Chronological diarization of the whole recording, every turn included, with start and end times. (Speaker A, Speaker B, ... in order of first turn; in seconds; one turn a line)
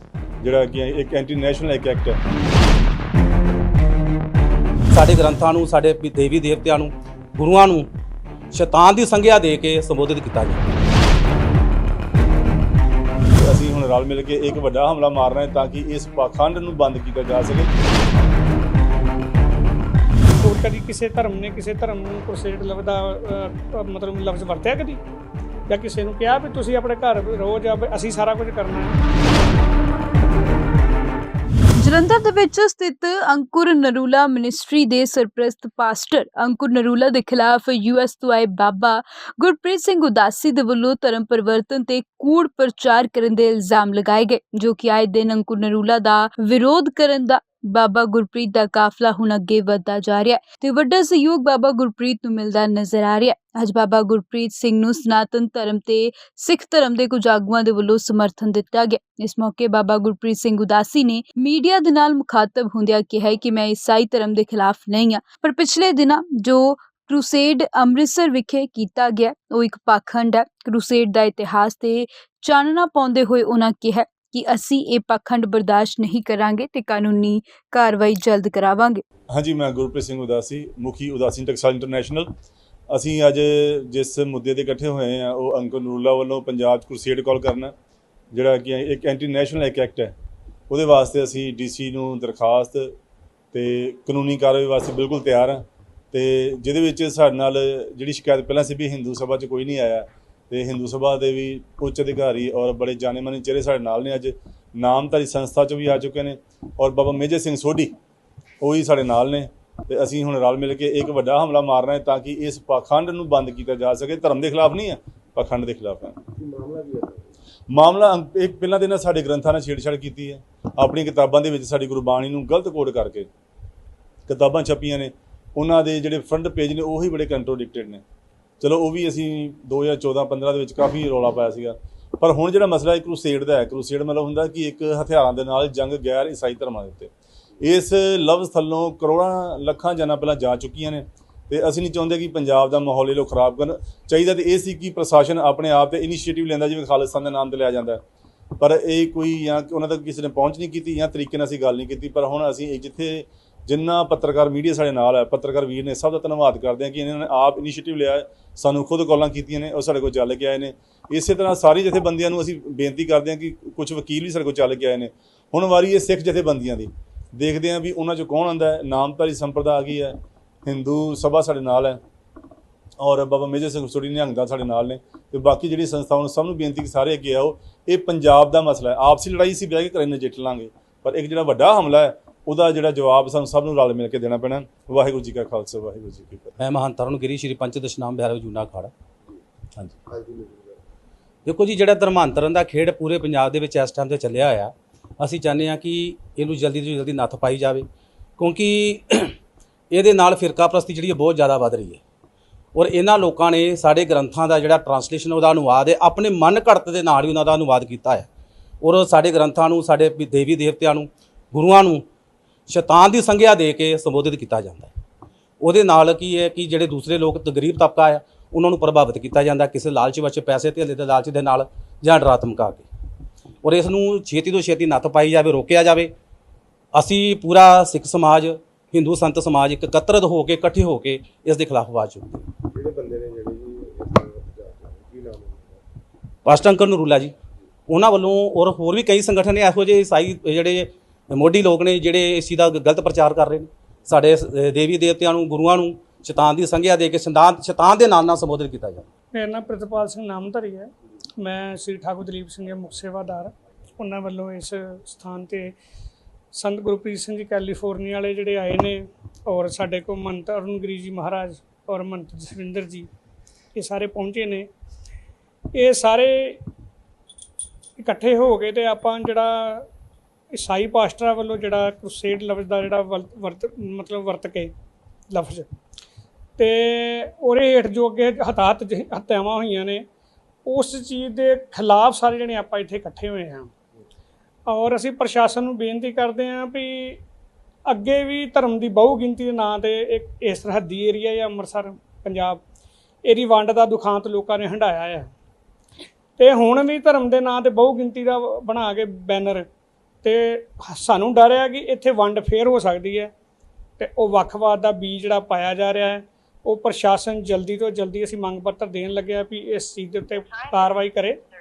Speaker A: 0.4-2.2
Speaker B: 4.9-7.9
Speaker B: 8.5-10.7
Speaker A: 13.4-17.7
Speaker C: 20.4-25.0
Speaker C: 25.7-29.0
Speaker D: 31.8-79.0
Speaker A: 79.3-82.3
Speaker A: 82.9-87.7
Speaker A: 88.3-90.1
Speaker A: 90.7-92.9
Speaker A: 93.5-107.9
Speaker A: 108.6-116.2
Speaker E: 116.3-117.3
Speaker A: 117.7-123.3
Speaker A: 124.3-128.0
Speaker A: 128.6-148.0
Speaker A: 148.6-172.0
Speaker A: 173.0-186.6
Speaker B: 186.6-188.9
Speaker E: 190.1-190.8
Speaker B: 191.4-197.8
Speaker B: 198.4-199.3
Speaker B: 199.9-202.0
Speaker B: 202.7-208.3
Speaker B: 208.8-212.0
Speaker B: 212.7-214.9
Speaker B: 215.6-222.8
Speaker B: 223.6-226.1
Speaker B: 226.9-232.5
Speaker E: 232.6-235.8
Speaker B: 236.4-237.3
Speaker B: 237.9-249.1
Speaker C: 249.3-255.8
Speaker C: 256.5-263.1
Speaker C: 263.7-264.7
Speaker C: 265.7-266.6
Speaker C: 268.0-269.9
Speaker C: 270.5-274.7
Speaker C: 275.3-275.7
Speaker C: 276.6-280.1
Speaker C: 280.6-283.7
Speaker C: 284.6-287.2
Speaker C: 287.9-292.6
Speaker C: 293.2-295.3
Speaker C: 296.4-299.7
Speaker C: 300.2-303.3
Speaker C: 304.0-311.4